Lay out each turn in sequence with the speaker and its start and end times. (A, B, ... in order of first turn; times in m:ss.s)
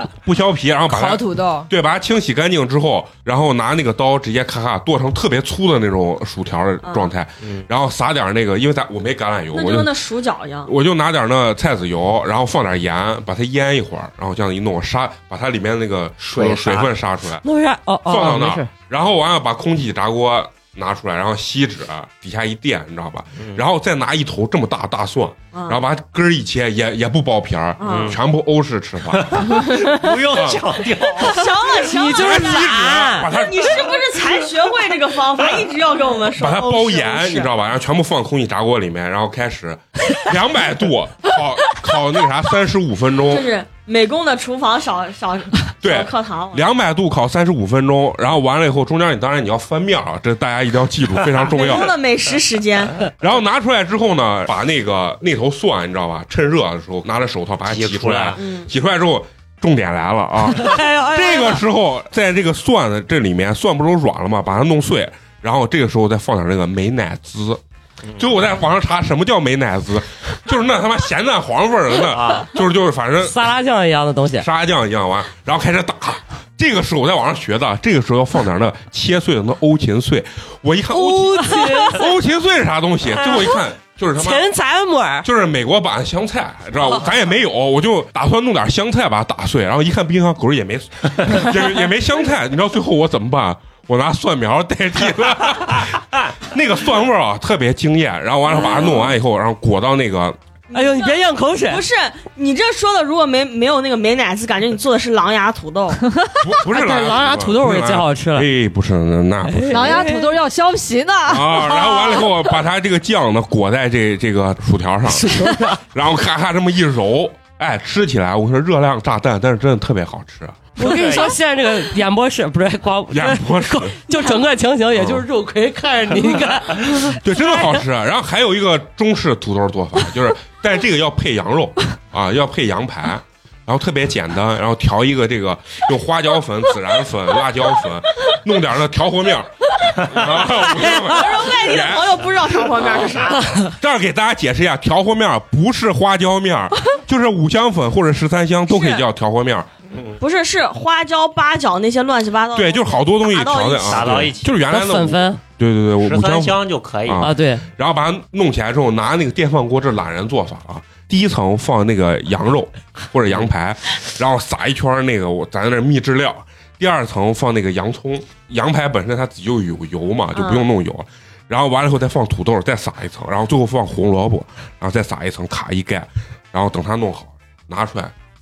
0:00.2-0:09.9 A
0:01.0-0:01.6 B
0:06.8-0:07.1 C
0:07.4-0:07.7 D
0:09.5-0:10.7 C
0:10.6-0:17.4 A
0:16.2-0:16.9 D
0:17.4-0:18.7 E
0:18.1-0:30.7 A
0:23.4-0:23.6 D
0:25.5-0:25.8 C
0:27.8-0:28.2 C
0:27.8-0:28.2 D
0:29.1-0:31.5 D
0:31.2-0:37.5 C
0:31.8-0:33.3 E
0:32.1-0:34.0 A
0:36.3-0:43.5 A
0:43.3-0:46.6 C
0:45.8-0:51.9 A
0:51.4-0:53.0 C
0:53.2-1:07.6 A
0:57.7-0:58.4 D
0:58.4-0:58.7 C
1:00.6-1:01.6 C
1:08.2-1:13.5 A
1:12.1-1:12.5 D
1:13.2-1:14.5 E
1:14.4-1:24.5 A
1:20.9-1:22.1 E
1:23.2-1:23.6 E
1:24.2-1:25.3 E
1:25.2-1:40.4 A
1:40.7-1:46.0 C
1:40.7-1:41.8 E
1:46.4-1:50.0 A
1:46.7-1:48.5 E
1:49.4-1:50.4 E
1:49.7-1:52.3 B
1:51.3-2:00.6 A
1:55.2-1:55.8 E
2:00.8-2:01.3 D
2:00.8-2:07.8 E
2:03.1-2:04.0 A
2:04.9-2:05.2 A
2:07.0-2:22.9 A
2:20.7-2:23.5 C
2:23.7-2:29.7 A
2:28.7-2:29.0 C
2:29.9-2:30.2 D
2:30.2-2:34.3 C
2:32.5-2:58.1 A
2:33.9-2:34.5 D
2:34.7-2:35.4 E
2:36.0-2:37.2 D
2:37.2-2:37.6 E
2:50.3-2:50.6 C